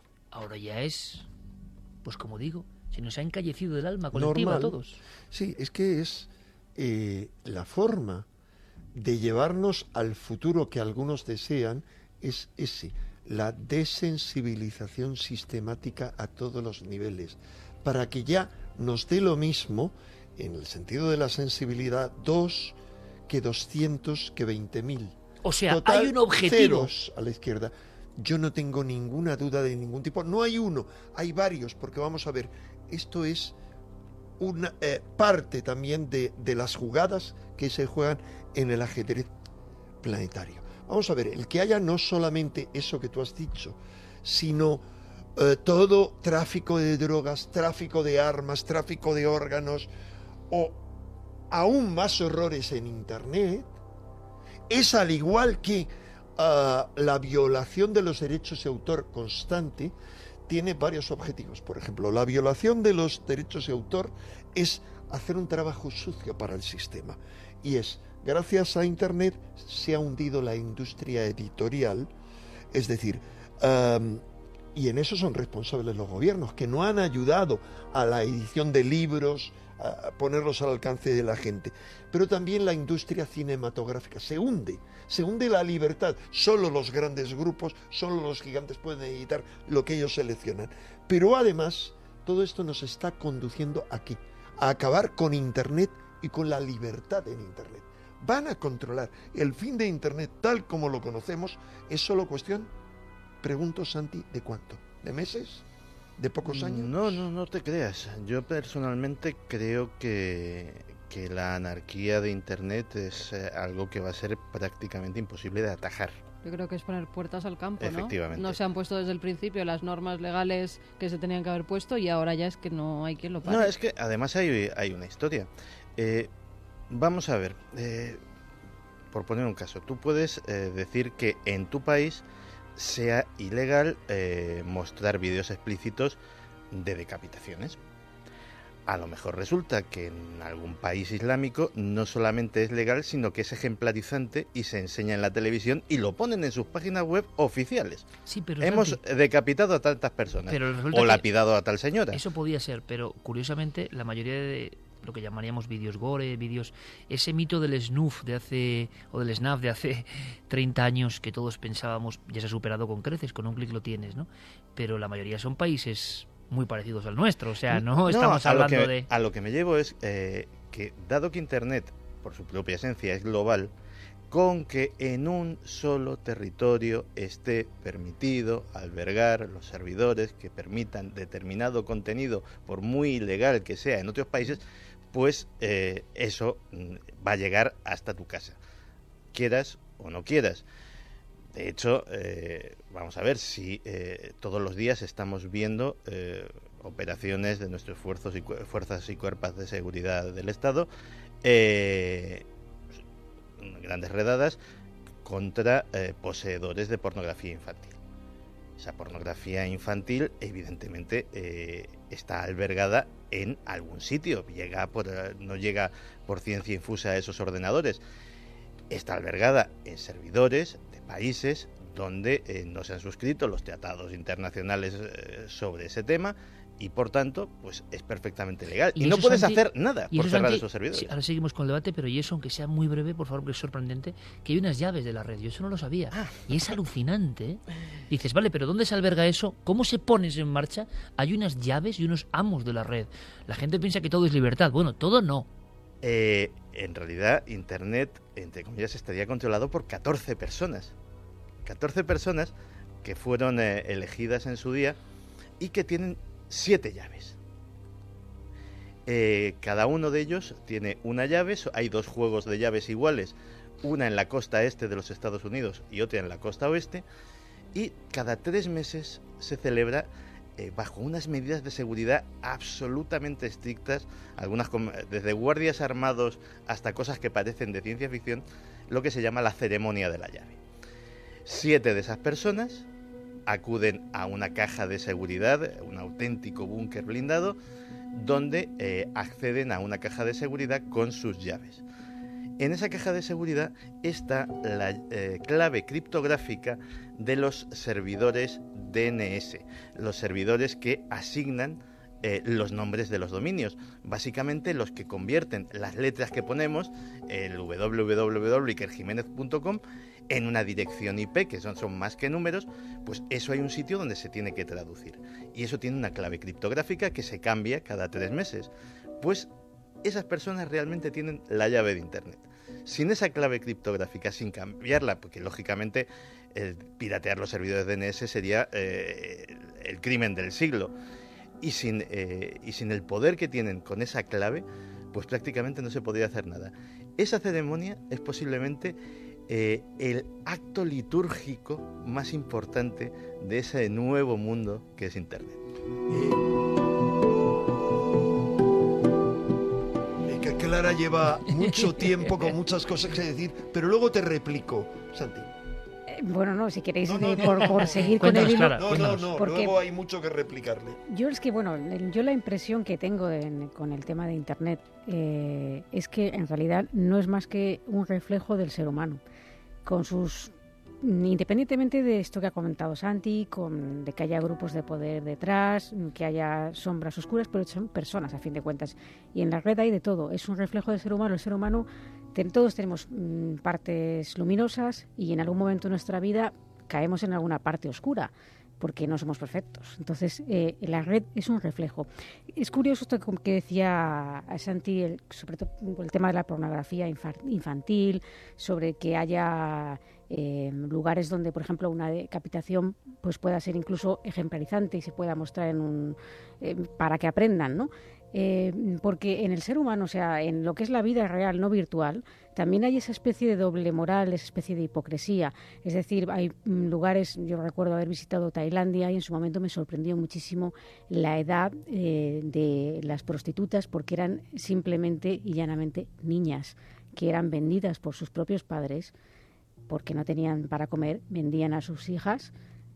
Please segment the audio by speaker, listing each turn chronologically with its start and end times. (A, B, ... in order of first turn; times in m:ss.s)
0:00.3-0:01.3 A
0:02.0-0:05.0 A
0:04.1-0:04.8 B
0:05.3-0:08.3 B
0:08.9-0:22.8 B
0:23.3-0:25.2 B
0:25.4-0:26.9 A
0:25.7-0:33.5 B
0:34.4-0:39.3 B
0:40.0-0:44.8 B
0:45.4-0:49.9 B
0:50.5-0:50.8 B
0:51.5-0:53.7 B
0:54.7-0:59.9 B
1:00.5-1:12.1 B
1:12.7-1:14.2 B
1:14.7-1:42.7 B
1:43.4-1:45.6 B
1:46.2-1:47.2 B
1:46.4-1:56.1 C
1:56.4-2:03.7 D
1:57.8-1:58.6 C
2:03.4-2:06.3 C
2:06.9-2:08.2 C
2:09.1-2:12.2 C
2:12.8-2:16.2 C
2:16.7-2:17.8 C
2:18.9-2:28.1 C
2:28.2-2:29.0 A
2:28.6-2:32.2 C
2:30.5-2:31.3 A
2:32.1-2:49.1 A
2:47.7-2:53.7 C
2:54.3-3:04.6 C
3:05.1-3:08.6 C
3:09.3-3:10.6 C
3:11.5-3:20.9 C
3:21.4-3:22.4 C
3:23.6-3:24.6 C
3:25.2-3:27.9 C
3:28.8-3:38.0 C
3:38.9-3:51.1 C
3:49.0-4:05.5 A
3:56.1-3:56.7 C
4:06.0-4:10.9 C
4:11.6-4:12.5 C
4:13.0-4:15.0 C
4:15.6-4:17.4 C
4:19.1-4:27.0 C
4:27.7-4:40.6 C
4:41.4-4:42.9 C
4:43.5-4:47.6 C
4:48.1-4:51.8 C
4:52.6-5:19.5 C
5:20.0-5:30.9 C
5:31.6-5:39.0 C
5:39.5-5:45.6 C
5:46.1-5:46.4 B
5:50.2-5:55.5 B
5:51.6-5:52.0 A
5:56.1-5:59.8 E
5:57.0-6:01.0 B
5:58.2-5:59.3 A
6:01.1-6:09.2 E
6:09.8-7:09.1 E
7:09.9-7:12.5 E